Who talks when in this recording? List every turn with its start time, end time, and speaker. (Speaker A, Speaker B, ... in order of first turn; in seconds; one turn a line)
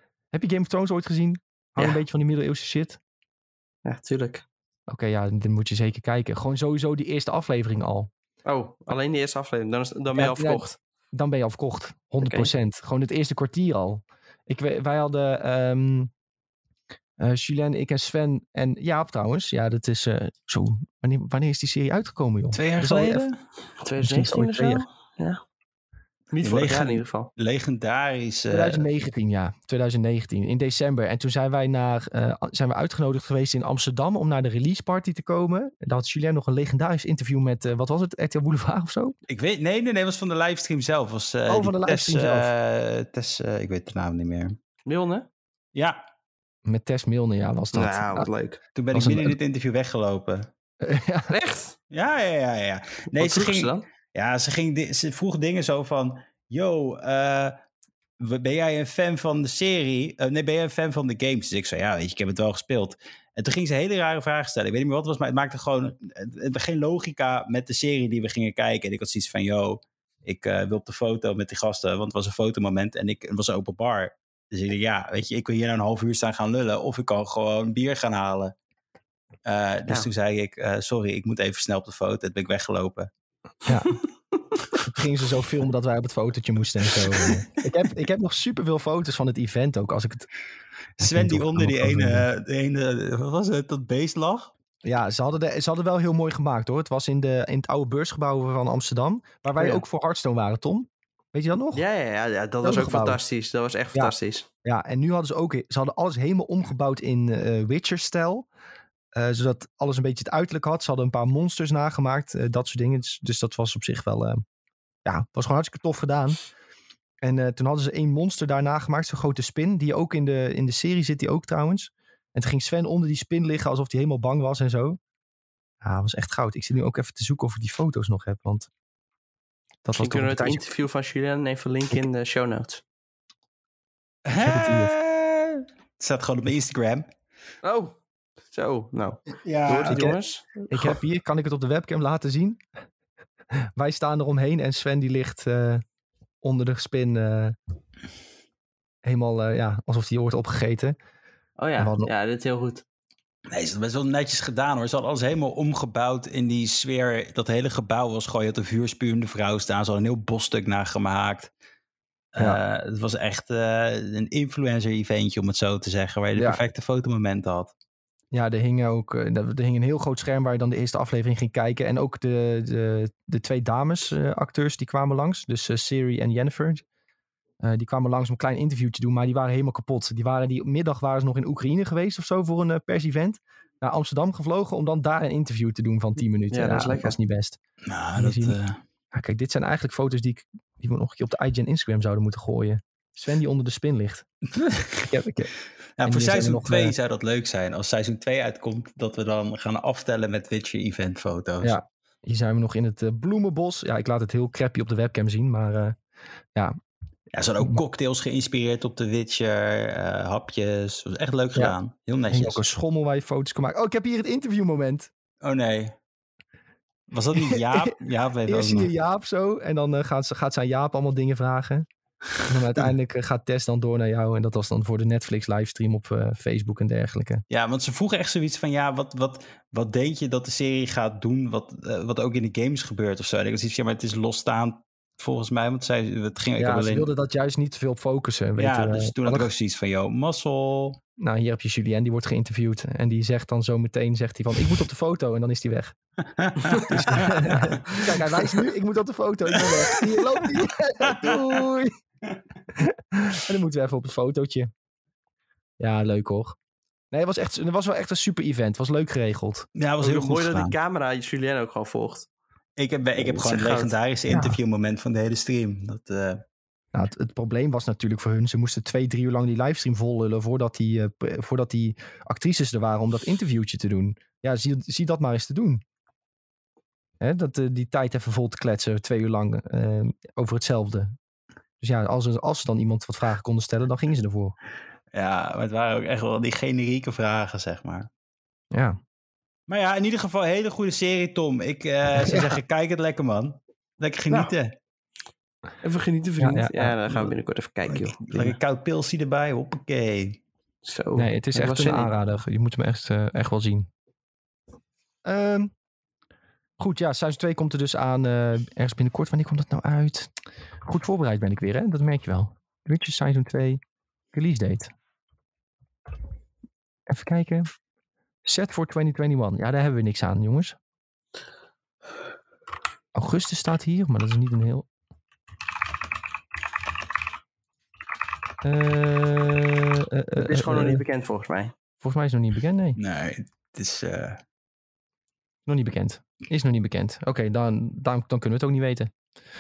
Speaker A: 0.3-3.0
Speaker B: 3.9-4.5
Speaker A: 4.9-8.1
Speaker B: 8.4-10.8
Speaker A: 10.1-16.1
Speaker B: 12.2-12.5
Speaker A: 17.2-23.3
Speaker C: 22.5-23.4
Speaker B: 23.8-25.4
Speaker A: 24.0-24.9
Speaker B: 26.3-27.3
Speaker C: 26.4-28.9
Speaker A: 28.5-39.2
Speaker C: 39.3-44.6
Speaker A: 41.5-42.5
Speaker B: 44.9-45.3
Speaker C: 45.8-46.0
Speaker A: 46.7-48.3
Speaker B: 47.7-48.6
Speaker C: 48.8-50.5
Speaker A: 48.9-49.4
Speaker A: 50.8-51.4
Speaker B: 51.3-51.8
Speaker C: 51.9-57.5
Speaker B: 53.1-53.9
Speaker C: 58.2-78.5
Speaker C: 79.5-83.1
Speaker A: 83.7-84.0
Speaker A: 84.8-90.3
Speaker A: 91.0-92.3
Speaker C: 91.0-94.5
Speaker A: 94.8-101.8
Speaker B: 101.7-104.5
Speaker A: 102.6-103.2
Speaker A: 103.9-108.5
Speaker A: 109.1-114.4
Speaker A: 115.0-116.4
Speaker A: 117.2-125.0
Speaker A: 125.8-128.7
Speaker A: 129.8-130.6
Speaker B: 129.9-132.8
Speaker C: 134.2-137.1
Speaker A: 134.4-134.9
Speaker B: 137.6-138.0
Speaker B: 138.5-141.0
Speaker C: 139.4-140.2
Speaker A: 140.7-142.6
Speaker A: 143.6-145.8
Speaker A: 146.4-147.6
Speaker A: 149.0-151.0
Speaker B: 151.6-152.8
Speaker A: 151.8-152.1
Speaker C: 153.5-161.5
Speaker C: 162.3-167.7
Speaker A: 166.4-166.6
Speaker A: 168.3-176.8
Speaker A: 177.6-187.6
Speaker B: 186.5-187.1
Speaker C: 187.9-188.8
Speaker A: 188.2-188.6
Speaker A: 189.1-194.3
Speaker C: 194.5-195.1
Speaker A: 195.1-195.5
Speaker C: 196.0-201.8
Speaker A: 196.0-196.9
Speaker A: 201.6-206.0
Speaker C: 207.3-212.6
Speaker A: 212.3-215.1
Speaker C: 215.4-215.9
Speaker C: 217.1-218.9
Speaker A: 217.4-217.9
Speaker A: 218.5-221.9
Speaker A: 222.4-227.4
Speaker C: 227.5-237.1
Speaker A: 236.6-239.5
Speaker C: 238.6-241.0
Speaker A: 241.2-246.0
Speaker C: 246.4-247.5
Speaker B: 246.6-248.0
Speaker A: 246.9-251.9
Speaker C: 249.5-250.4
Speaker C: 251.0-251.4
Speaker A: 252.8-254.7
Speaker A: 255.8-256.6
Speaker A: 257.1-259.7
Speaker C: 259.8-260.8
Speaker B: 260.0-262.3
Speaker C: 262.8-266.4
Speaker B: 263.2-263.9
Speaker A: 264.3-264.6
Speaker A: 266.9-275.8
Speaker A: 277.2-281.2
Speaker A: 281.8-284.6
Speaker C: 285.1-288.1
Speaker A: 288.7-289.0
Speaker C: 289.7-294.7
Speaker A: 292.1-292.6
Speaker B: 295.8-298.6
Speaker A: 296.4-297.3
Speaker C: 297.9-300.4
Speaker B: 300.8-302.1
Speaker A: 301.1-303.9
Speaker A: 305.2-305.7
Speaker A: 306.8-313.8
Speaker A: 314.3-314.9
Speaker A: 317.1-317.7
Speaker A: 318.4-320.8
Speaker A: 323.1-324.9
Speaker A: 328.6-331.0
Speaker B: 330.4-331.7
Speaker A: 332.0-333.0
Speaker C: 333.0-334.4
Speaker A: 335.7-339.1